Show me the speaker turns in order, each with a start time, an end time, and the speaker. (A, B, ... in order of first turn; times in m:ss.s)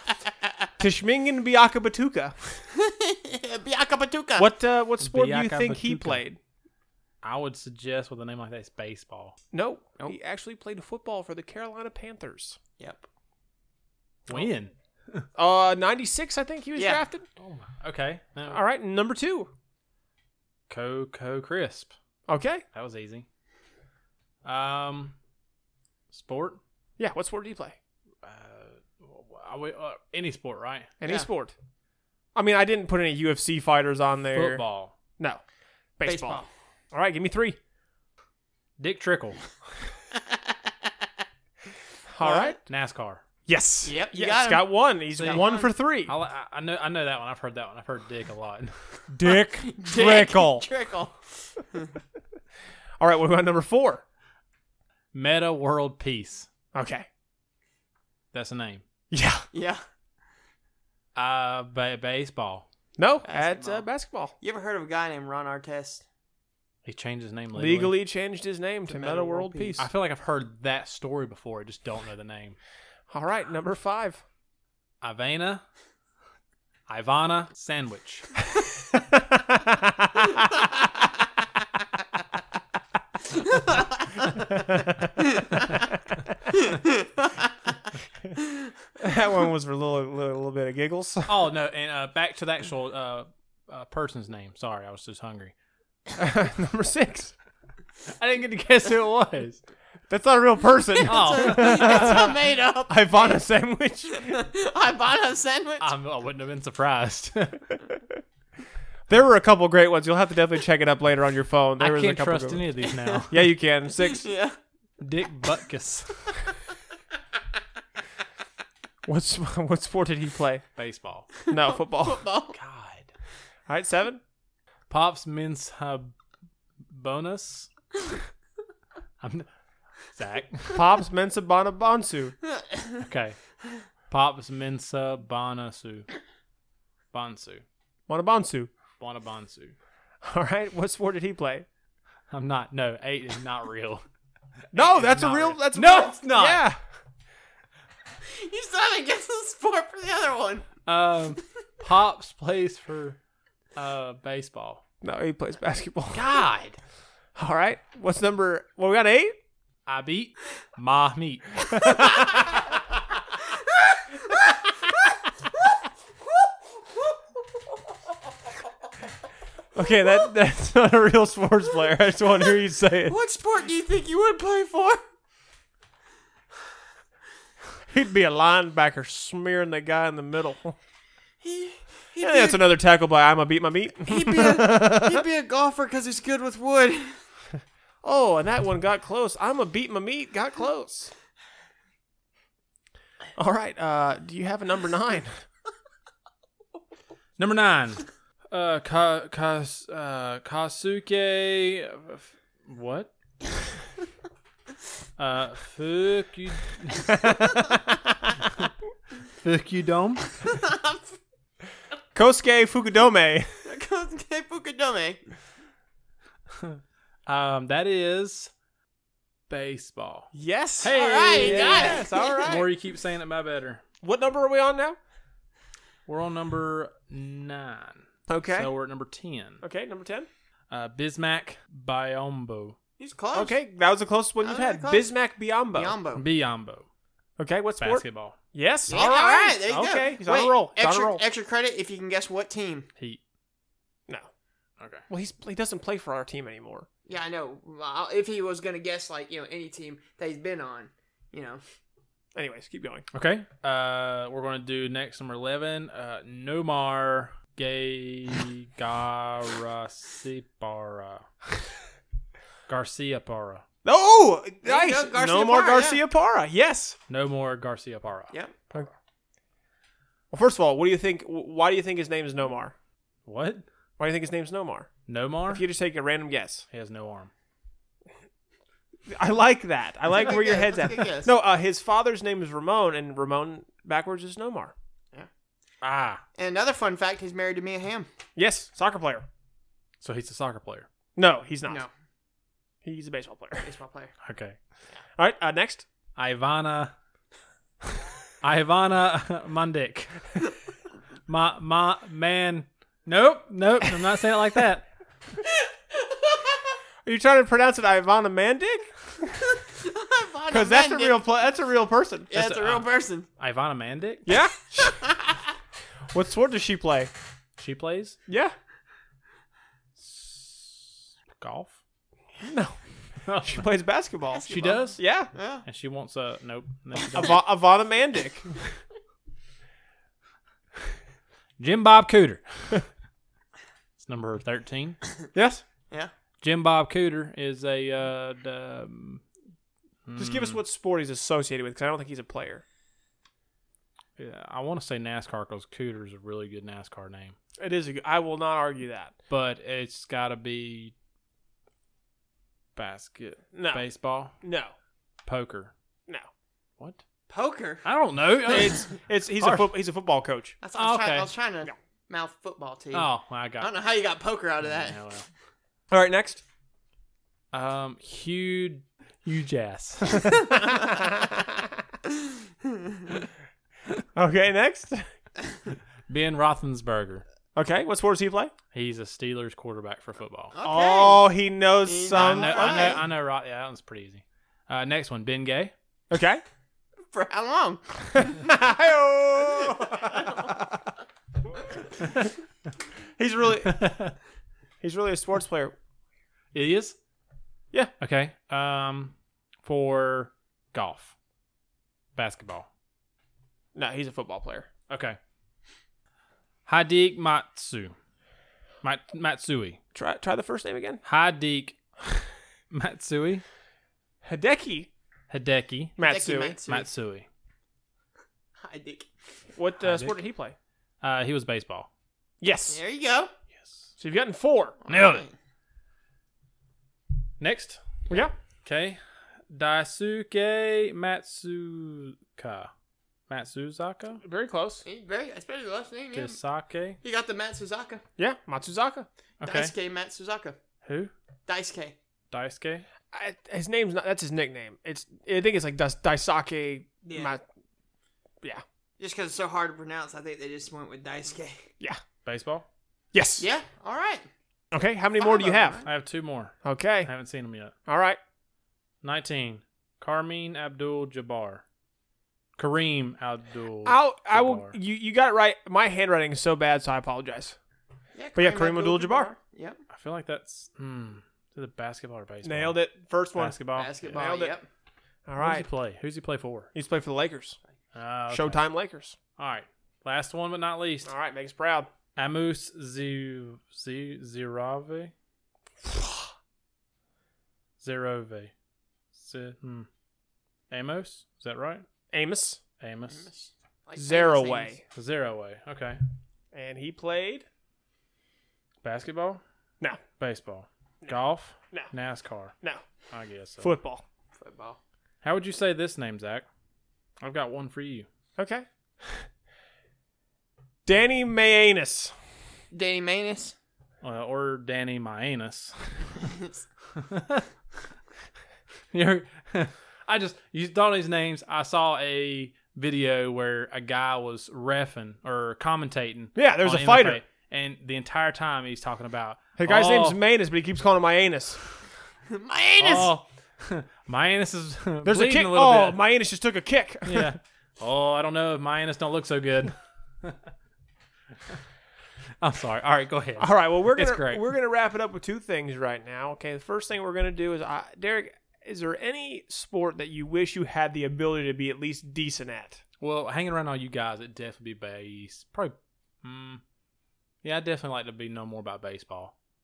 0:00.8-0:02.5 A
0:02.7-0:04.5 B
0:04.4-0:06.4 A
0:05.0-0:06.2 C
0:07.2-0:09.4 C
0:09.5-0:12.6 A
0:12.8-0:13.0 B
0:14.3-0:15.3 C
0:15.3-0:17.2 A
0:16.8-0:17.0 B
0:17.4-0:18.6 C
0:18.5-0:19.5 A
0:20.7-0:21.9 C
0:22.3-0:22.6 A
0:22.7-0:23.2 C
0:24.4-0:25.2 C
0:26.1-0:26.6 C
0:27.0-0:27.8 A
0:28.2-0:30.9 C
0:31.0-0:31.5 A
0:32.3-0:34.6 A
0:34.3-0:34.9 C
0:36.0-0:37.6 A
0:36.0-0:36.5 B
0:38.8-0:39.4 C
0:40.2-0:40.5 B
0:42.1-0:42.6 A
0:42.2-0:42.6 B
0:42.6-0:43.2 C
0:43.5-0:46.1 A
0:43.8-0:45.7 B
0:45.2-0:48.8 C
0:49.1-0:50.7 A
0:49.6-0:51.9 B
0:53.0-0:54.0 A
0:55.1-0:56.5 C
0:56.7-0:57.1 A
0:58.3-0:58.8 C
0:59.1-0:59.4 A
0:59.5-0:59.8 B
1:01.2-1:02.7 C
1:03.0-1:04.3 A
1:03.2-1:03.8 B
1:04.4-1:06.0 B
1:06.8-1:07.9 C
1:07.5-1:09.8 A
1:08.9-1:09.8 B
1:09.8-1:12.6 C
1:13.1-1:14.2 A
1:15.0-1:15.6 C
1:16.9-1:18.3 C
1:19.1-1:20.4 A
1:23.5-1:23.9 B
1:25.3-1:25.7 B
1:26.5-1:27.5 B
1:29.0-1:31.4 A
1:31.3-1:35.5 C
1:36.2-1:37.3 A
1:38.2-1:39.6 C
1:40.1-1:44.4 A
1:41.0-1:43.4 B
1:41.0-1:42.2 C
1:44.1-1:45.9 B
1:45.8-1:47.8 C
1:49.1-1:52.7 A
1:51.8-1:53.5 C
1:53.3-1:54.3 A
1:54.0-1:54.6 B
1:55.0-1:56.4 C
1:59.0-2:00.6 A
2:00.8-2:01.3 C
2:01.4-2:02.6 B
2:01.5-2:02.2 A
2:02.5-2:03.1 C
2:03.7-2:04.2 A
2:04.9-2:06.1 C
2:06.9-2:07.7 C
2:09.2-2:09.5 C
2:10.1-2:10.8 C
2:10.7-2:12.4 A
2:12.6-2:13.0 B
2:13.0-2:13.4 C
2:14.1-2:16.1 C
2:17.1-2:17.6 C
2:18.1-2:18.7 A
2:19.0-2:19.7 C
2:20.2-2:21.6 A
2:22.3-2:24.0 C
2:24.7-2:26.6 C
2:24.7-2:26.8 A
2:28.2-2:30.7 B
2:30.8-2:33.2 C
2:33.8-2:34.8 C
2:35.0-2:36.3 A
2:36.1-2:36.8 C
2:37.4-2:39.4 A
2:39.9-2:41.9 C
2:41.7-2:42.6 A
2:43.8-2:45.2 B
2:49.7-2:53.2 A
2:53.0-2:55.0 B
2:57.9-3:00.8 A
3:01.4-3:02.7 B
3:02.2-3:05.2 A
3:04.0-3:07.2 B
3:08.0-3:11.1 A
3:13.4-3:15.4 A
3:17.4-3:23.1 C
3:25.2-3:27.4 C
3:27.1-3:28.1 A
3:29.4-3:30.3 C
3:30.4-3:31.2 B
3:32.1-3:33.5 A
3:33.6-3:35.2 B
3:36.6-3:38.5 C
3:39.5-3:40.3 C
3:40.3-3:42.7 A
3:40.8-3:43.8 C
3:40.8-3:42.5 B
3:44.0-3:45.0 A
3:46.1-3:49.6 C
3:48.3-3:48.7 A
3:49.6-3:50.3 A
3:50.7-3:52.8 C
3:53.0-3:53.6 B
3:53.3-3:56.0 A
3:54.4-3:55.1 B
3:55.7-3:56.2 B
3:56.1-3:56.9 C
3:57.4-4:01.2 A
3:57.8-3:58.4 C
3:58.9-4:02.9 B
4:04.8-4:05.0 C
4:05.1-4:06.9 A
4:07.0-4:11.6 B
4:12.3-4:13.0 A
4:13.1-4:21.3 C
4:22.7-4:23.6 C
4:23.8-4:27.0 A
4:24.6-4:26.0 B
4:27.1-4:28.9 C
4:30.3-4:32.7 A
4:33.3-4:33.6 C
4:34.0-4:34.9 A
4:35.1-4:35.6 C
4:35.5-4:36.6 A
4:36.7-4:37.3 C
4:39.1-4:44.7 A
4:40.1-4:41.3 B
4:45.8-4:46.2 C
4:46.4-4:48.1 B
4:48.4-4:49.3 A
4:50.0-4:50.9 C
4:51.2-4:51.8 A
4:52.8-4:53.7 A
4:53.6-4:54.1 B
4:54.2-4:54.6 C
4:55.2-4:55.9 A
4:56.2-4:56.9 C
4:58.4-5:00.4 C
5:01.3-5:04.9 C
5:05.9-5:06.4 B
5:07.0-5:08.9 A
5:09.5-5:11.2 B
5:10.5-5:12.3 A
5:12.3-5:13.3 B
5:12.3-5:14.3 C
5:14.3-5:15.0 A
5:14.8-5:15.4 B
5:16.1-5:17.1 A
5:17.6-5:18.2 C
5:18.3-5:18.6 A
5:20.0-5:21.8 C
5:22.4-5:22.8 A
5:23.2-5:23.7 C
5:23.5-5:25.3 A
5:24.3-5:25.6 B
5:24.5-5:25.0 C
5:25.6-5:27.4 C
5:27.1-5:28.5 A
5:31.6-5:32.8 C
5:34.0-5:35.0 C
5:35.3-5:35.6 A
5:36.4-5:39.2 C
5:40.1-5:40.6 C
5:40.2-5:42.6 A
5:44.2-5:47.4 C
5:47.6-5:49.1 A
5:49.3-5:50.9 C
5:52.8-5:54.3 C
5:53.5-5:53.8 A
5:54.4-5:54.7 A
5:55.3-5:55.7 C
5:57.3-5:57.8 B
5:57.8-5:59.7 C
5:58.4-6:00.6 A
6:00.6-6:05.0 B
6:00.7-6:01.3 C
6:02.9-6:03.7 C
6:04.6-6:05.3 C
6:05.9-6:06.4 A
6:07.5-6:10.5 C
6:10.7-6:11.0 B
6:10.8-6:11.3 A
6:12.2-6:13.0 B
6:14.1-6:15.1 A
6:16.1-6:17.2 C
6:17.6-6:18.5 A
6:18.7-6:20.5 C
6:20.5-6:21.3 B
6:20.6-6:23.0 A
6:21.8-6:23.0 B
6:22.1-6:25.7 C
6:26.1-6:26.4 A
6:27.1-6:28.4 B
6:28.1-6:30.9 A
6:29.6-6:30.5 B
6:33.2-6:33.8 A
6:33.6-6:34.2 C
6:34.8-6:35.8 A
6:36.5-6:37.0 C
6:38.0-6:41.1 C
6:42.1-6:42.7 C
6:43.7-6:44.7 A
6:44.9-6:45.2 C
6:46.6-6:47.9 C
6:48.8-6:49.8 C
6:49.9-6:51.0 A
6:51.0-6:51.8 C
6:52.7-6:53.4 C
6:54.2-6:54.9 A
6:55.3-6:56.0 C
6:56.0-6:56.6 A
6:56.0-6:56.9 B
6:56.7-6:57.3 C
6:58.6-6:59.1 B
6:59.6-7:00.6 A
6:59.8-7:00.2 C
7:01.0-7:01.9 C
7:02.4-7:02.8 A
7:02.7-7:03.3 B
7:04.0-7:04.8 A
7:04.9-7:05.3 C
7:04.9-7:05.3 B
7:07.4-7:08.0 C
7:08.6-7:12.7 C
7:13.3-7:14.2 C
7:14.2-7:14.8 A
7:14.8-7:16.4 B
7:16.1-7:17.0 C
7:17.0-7:18.0 B
7:18.2-7:19.1 A
7:19.4-7:19.7 C
7:19.4-7:20.6 B
7:20.8-7:21.1 C
7:21.5-7:22.0 B
7:22.3-7:22.9 C
7:23.1-7:27.4 A
7:27.0-7:27.3 B
7:29.0-7:31.7 B
7:32.2-7:32.6 C
7:33.1-7:33.4 A
7:33.4-7:34.3 B
7:34.7-7:35.8 A
7:35.2-7:35.8 B
7:35.8-7:37.7 C
7:36.6-7:37.1 A
7:37.9-7:38.2 A
7:39.0-7:41.6 C
7:42.6-7:44.7 C
7:43.8-7:47.6 A
7:48.1-7:49.8 B
7:48.3-7:49.3 A
7:49.9-7:52.8 C
7:52.4-7:54.6 A
7:53.3-7:54.2 C
7:53.7-7:54.7 B
7:55.3-7:55.7 A
7:55.4-7:56.7 C
7:56.7-7:57.6 A
7:57.9-7:58.6 C
7:58.3-7:59.2 A
7:59.4-8:01.1 C
8:01.0-8:01.9 A
8:02.2-8:05.1 C
8:05.8-8:06.3 A
8:07.8-8:08.5 C
8:09.1-8:09.9 C
8:10.7-8:11.9 C
8:12.1-8:12.6 A
8:12.8-8:13.3 C
8:13.1-8:14.8 B
8:13.9-8:14.8 A
8:14.9-8:16.0 C
8:16.5-8:17.4 A
8:18.8-8:19.4 C
8:20.2-8:22.5 C
8:23.1-8:23.7 C
8:23.6-8:24.0 A
8:24.4-8:24.8 B
8:25.2-8:26.4 C
8:27.2-8:28.1 C
8:28.4-8:29.3 A
8:30.9-8:32.1 A
8:32.7-8:33.6 B
8:34.0-8:36.0 C
8:36.9-8:37.5 C
8:38.9-8:50.2 C
8:46.4-8:47.2 A
8:49.6-8:51.6 A
8:52.3-8:53.1 B
8:52.8-8:56.0 C
8:55.0-8:57.3 A
8:57.0-9:00.4 C
9:02.4-9:04.5 C
9:03.4-9:12.8 A
9:13.0-9:16.6 C
9:17.4-9:19.3 C